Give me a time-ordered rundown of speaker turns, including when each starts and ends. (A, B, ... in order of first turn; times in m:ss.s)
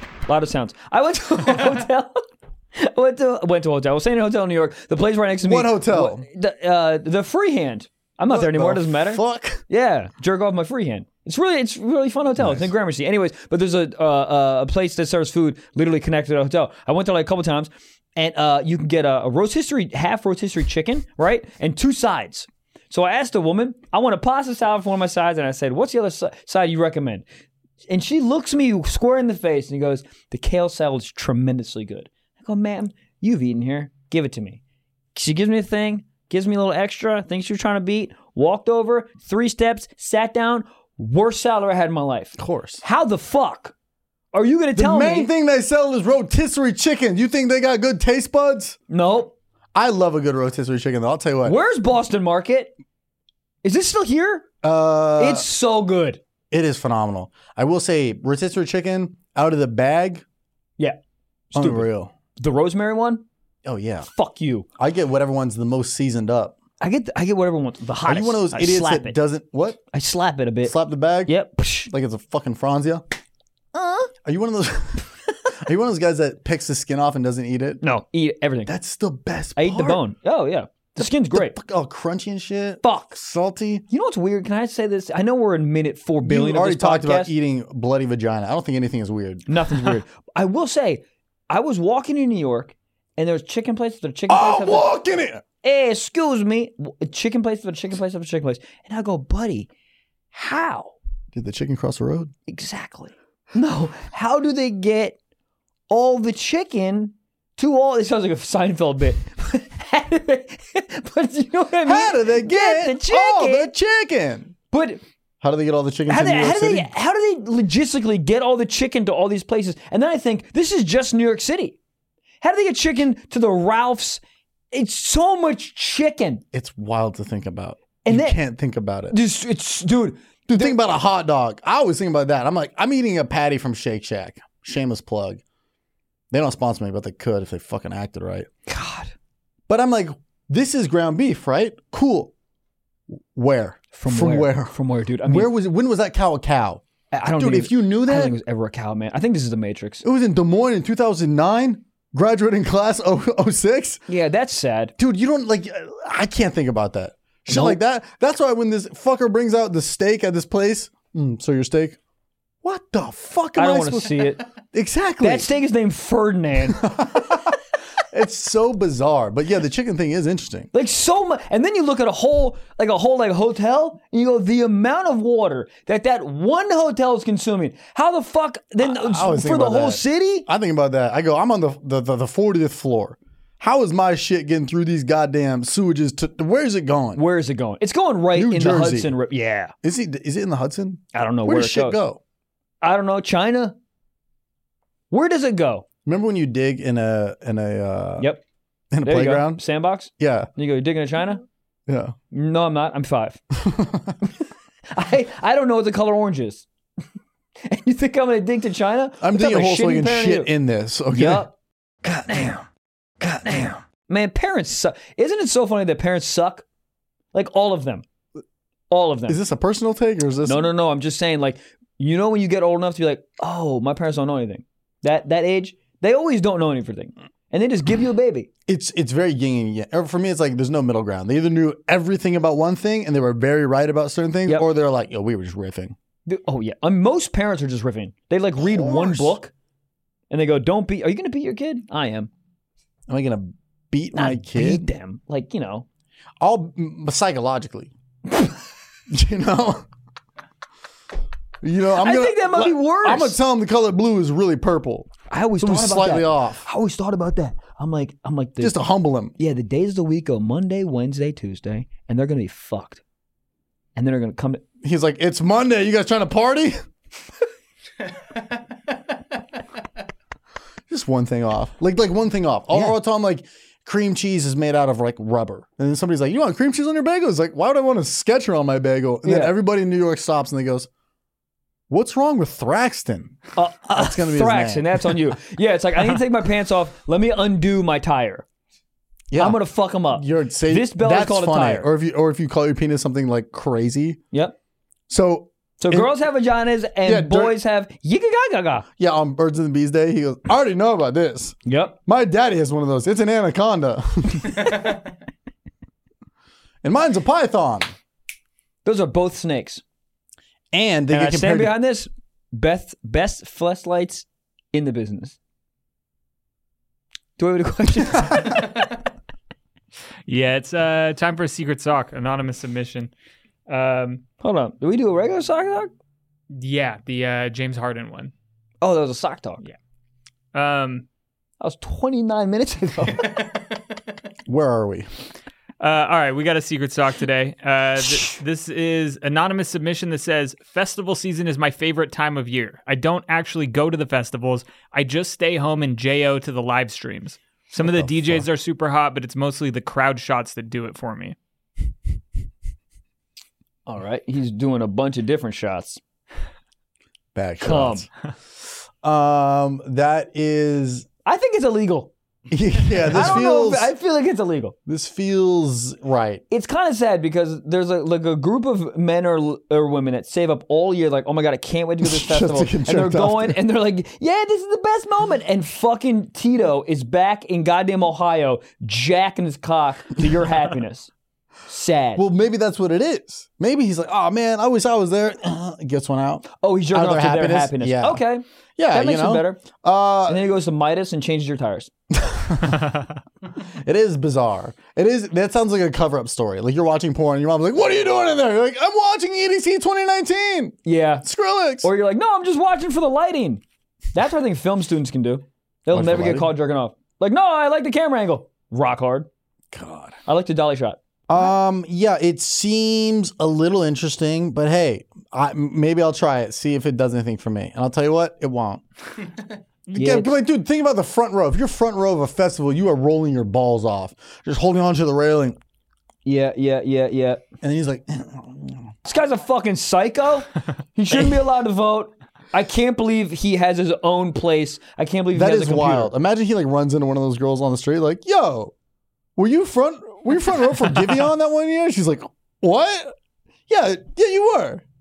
0:00.3-0:02.2 A
0:02.7-0:27.2 A
0:05.4-0:06.2 B
0:08.3-0:09.6 B
0:12.4-0:12.7 B
0:27.9-0:34.6 A
0:35.1-0:43.7 A
0:42.4-0:42.8 B
0:44.3-0:45.3 A
0:44.7-0:48.8 B
0:48.9-0:49.3 A
0:49.7-0:51.6 B
0:51.4-0:52.7 A
0:53.6-0:54.4 A
0:54.6-0:55.4 B
0:55.2-0:56.2 A
0:56.5-1:00.2 B
1:01.5-1:03.2 A
1:01.5-1:02.1 B
1:03.6-1:04.1 B
1:04.1-1:04.7 A
1:04.8-1:06.5 B
1:06.8-1:09.2 A
1:08.0-1:09.8 B
1:09.9-1:10.7 A
1:10.6-1:11.3 B
1:11.2-1:11.9 A
1:11.9-1:13.0 B
1:13.7-1:14.1 A
1:14.2-1:17.8 B
1:17.8-1:18.7 A
1:18.7-1:20.0 B
1:19.6-1:21.6 A
1:21.0-1:23.8 B
1:22.8-1:23.2 A
1:23.9-1:27.3 A
1:26.2-1:30.0 B
1:29.5-1:34.9 A
1:34.3-1:35.4 B
1:35.6-1:39.7 A
1:40.3-1:40.9 A
1:41.3-1:42.3 B
1:42.5-1:45.2 A
1:45.9-1:53.7 A
1:51.8-1:54.5 B
1:54.7-1:55.0 A
1:55.4-1:56.9 B
1:56.1-2:01.8 A
2:02.4-2:04.2 A
2:04.7-2:06.4 A
2:06.5-2:09.2 B
2:08.0-2:08.4 A
2:09.1-2:10.7 A
2:10.5-2:15.4 B
2:16.3-2:18.5 B
2:18.7-2:19.1 A
2:19.7-2:22.3 B
2:23.3-2:26.8 B
2:23.9-2:25.5 A
2:27.1-2:30.0 A
2:27.4-2:28.4 B
2:30.0-2:34.0 B
2:34.1-2:34.9 A
2:35.0-2:42.0 B
2:37.5-2:37.8 A
2:42.6-2:45.5 B
2:43.6-2:44.4 A
2:45.2-2:47.5 A
2:46.7-2:47.6 B
2:48.1-2:50.7 B
2:50.7-3:00.5 A
2:58.8-3:07.2 B
3:07.1-3:09.7 A
3:08.3-3:09.2 B
3:09.8-3:12.2 B
3:11.1-3:12.0 A
3:12.8-3:13.8 A
3:15.1-3:15.9 A
3:16.0-3:18.3 B
3:18.9-3:19.6 B
3:19.0-3:21.4 A
3:20.2-3:20.5 B
3:21.9-3:22.1 B
3:22.3-3:23.4 A
3:23.5-3:24.2 B
3:24.9-3:26.7 A
3:27.6-3:30.5 A
3:29.2-3:31.4 B
3:31.1-3:31.5 A
3:32.0-3:32.5 B
3:32.2-3:32.6 A
3:33.2-3:33.7 B
3:33.3-3:36.6 A
3:37.3-3:38.0 A
3:38.9-3:39.4 A
3:39.3-3:40.6 B
3:40.4-3:48.5 A
3:48.7-3:56.0 B
3:56.2-3:59.5 A
3:58.6-3:59.4 B
4:00.3-4:02.3 A
4:03.1-4:04.9 B
4:04.1-4:05.8 A
4:06.4-4:07.9 B
4:09.1-4:09.8 B
4:11.6-4:16.6 B
4:11.9-4:13.4 A
4:15.3-4:18.8 A
4:18.6-4:19.3 B
4:19.4-4:23.0 A
4:24.0-4:24.6 A
4:24.8-4:26.8 B
4:30.9-4:40.9 B
4:39.2-4:39.5 A
4:41.9-4:43.4 B
4:43.5-4:48.4 A
4:43.9-4:45.4 B
4:49.3-4:49.6 B
4:49.4-4:51.9 A
4:50.1-4:54.2 B
4:55.1-4:56.1 B
4:55.8-4:58.9 A
4:57.0-4:57.6 B
4:59.0-5:05.0 B
5:01.6-5:02.0 A
5:06.8-5:07.9 B
5:08.8-5:09.8 A
5:10.7-5:11.8 B
5:11.1-5:15.4 A
5:17.4-5:18.7 A
5:20.2-5:23.1 C
5:23.7-5:24.2 C
5:24.4-5:25.9 A
5:26.5-5:28.3 C
5:28.8-5:29.6 A
5:30.5-5:31.0 C
5:31.6-5:33.5 A
5:34.5-5:35.1 B
5:35.8-5:51.4 C
5:47.8-5:48.4 B
5:53.9-5:56.0 A
5:57.3-5:58.1 B
5:57.6-5:58.0 A
5:59.0-6:01.1 B
6:01.2-6:02.1 A
6:02.5-6:03.9 B
6:03.0-6:04.8 A
6:04.9-6:06.4 B
6:06.5-6:21.1 A
6:12.0-6:13.6 B
6:21.7-6:22.2 A
6:22.2-6:28.2 B
6:26.5-6:29.6 A
6:28.8-6:30.5 B
6:30.3-6:31.9 A
6:32.1-6:33.0 B
6:33.8-6:41.9 B
6:40.8-6:41.2 A
6:41.8-6:43.6 A
6:44.1-6:49.3 A
6:45.9-6:46.5 B
6:49.7-6:50.2 B
6:50.2-6:51.0 A
6:51.3-6:58.8 B
6:59.9-7:05.6 B
6:59.9-7:00.4 A
7:06.2-7:07.4 A
7:07.6-7:08.9 B
7:09.0-7:16.1 A
7:15.3-7:18.7 B
7:19.4-7:23.1 B
7:23.7-7:24.8 B